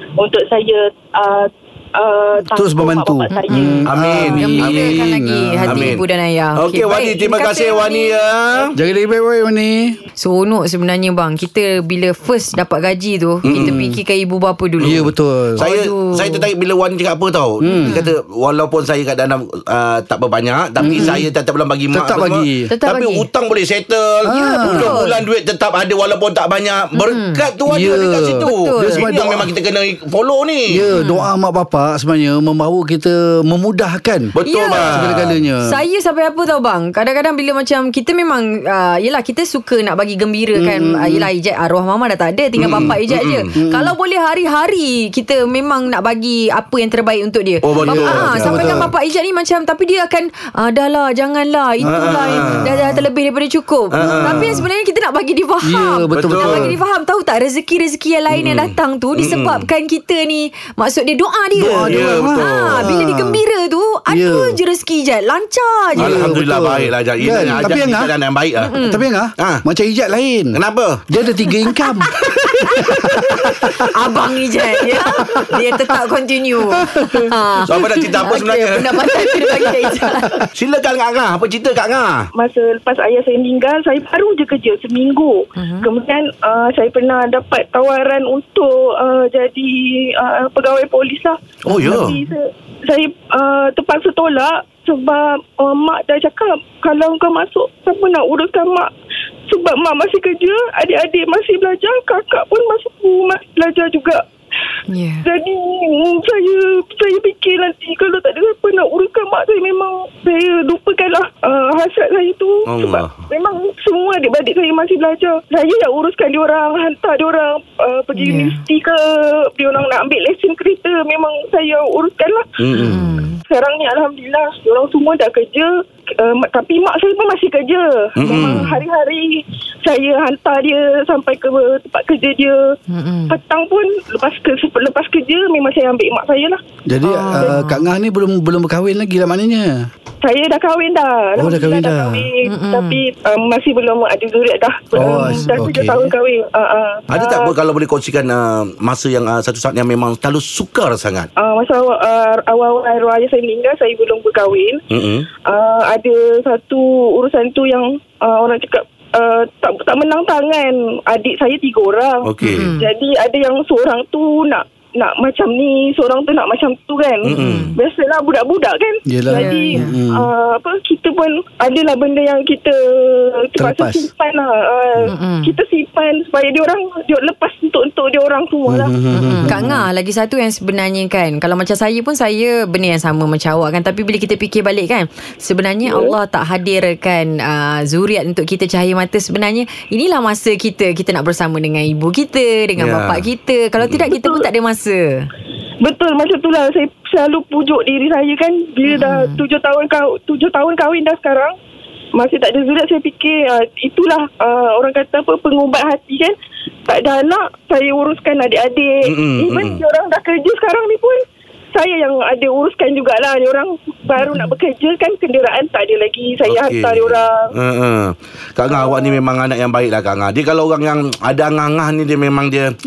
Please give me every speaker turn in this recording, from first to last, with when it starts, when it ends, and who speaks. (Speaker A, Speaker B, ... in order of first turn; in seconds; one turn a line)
Speaker A: 0.2-4.2
Speaker B: 2.5-5.9
Speaker C: 3.3-8.2
Speaker D: 3.9-5.0
Speaker D: 5.6-6.0
Speaker D: 6.5-8.8
Speaker B: 8.8-10.0
Speaker C: 10.2-16.5
Speaker D: 13.4-13.8
Speaker B: 13.5-14.0
Speaker B: 14.8-15.6
Speaker D: 15.6-30.9
Speaker B: 17.6-18.0
Speaker C: 17.7-18.1
Speaker B: 20.8-21.2
Speaker C: 20.9-21.2
Speaker B: 21.9-22.7
Speaker C: 22.7-23.3
Speaker B: 24.3-25.0
Speaker C: 24.3-25.2
Speaker C: 27.0-27.5
Speaker B: 27.7-29.5
Speaker C: 28.3-29.1
Speaker B: 30.7-34.3
Speaker C: 30.9-31.3
Speaker D: 34.3-35.4
Speaker C: 34.4-35.0
Speaker B: 34.9-35.8
Speaker C: 35.6-66.3
Speaker B: 40.5-41.3
Speaker D: 42.6-43.5
Speaker B: 43.5-43.9
Speaker D: 47.6-48.9
Speaker B: 47.8-48.9
Speaker B: 51.8-52.9
Speaker D: 51.9-52.8
Speaker D: 53.9-54.6
Speaker B: 54.0-54.6
Speaker B: 55.6-56.8
Speaker D: 56.1-56.7
Speaker D: 58.3-59.7
Speaker B: 61.6-63.4
Speaker D: 61.7-62.9
Speaker B: 64.1-64.6
Speaker D: 66.0-68.8
Speaker B: 66.0-68.1
Speaker C: 67.3-67.7
Speaker C: 68.6-69.0
Speaker B: 68.8-70.6
Speaker D: 69.4-69.6
Speaker D: 70.5-71.0
Speaker B: 71.1-73.9
Speaker C: 71.5-80.4
Speaker B: 75.2-75.7
Speaker B: 76.7-77.3
Speaker D: 77.7-79.2
Speaker D: 80.5-82.3
Speaker E: 82.3-98.9
Speaker C: 85.6-85.9
Speaker D: 91.7-92.2
Speaker C: 91.7-92.2
Speaker E: 99.5-104.2
Speaker C: 104.9-105.3
Speaker E: 105.2-122.5
Speaker D: 112.7-113.2
Speaker C: 118.2-118.6
Speaker D: 122.6-123.2
Speaker C: 122.7-123.4
Speaker E: 123.5-132.7
Speaker D: 128.2-128.7
Speaker C: 128.3-128.7
Speaker C: 132.9-133.4
Speaker E: 133.3-136.6
Speaker B: 136.9-139.9
Speaker C: 137.0-137.9
Speaker E: 140.2-147.5
Speaker B: 141.4-142.3
Speaker C: 142.4-143.0
Speaker B: 144.9-146.1
Speaker C: 145.0-145.7
Speaker D: 147.1-151.3
Speaker E: 151.4-154.8
Speaker D: 154.9-155.3
Speaker E: 155.5-179.0
Speaker D: 162.2-162.7
Speaker C: 162.4-162.9
Speaker D: 167.2-167.7
Speaker C: 167.3-167.7
Speaker B: 169.1-170.3
Speaker C: 169.3-170.0
Speaker B: 173.6-174.1
Speaker C: 175.1-175.5
Speaker B: 178.7-179.8
Speaker C: 179.1-195.3
Speaker E: 185.9-186.2
Speaker D: 192.8-193.3
Speaker E: 194.1-194.5
Speaker E: 195.8-201.6
Speaker C: 198.9-199.4
Speaker E: 202.2-206.4
Speaker E: 206.9-211.2
Speaker D: 209.0-209.8
Speaker E: 211.8-217.5
Speaker C: 214.2-214.6
Speaker D: 216.4-222.7
Speaker E: 218.7-219.1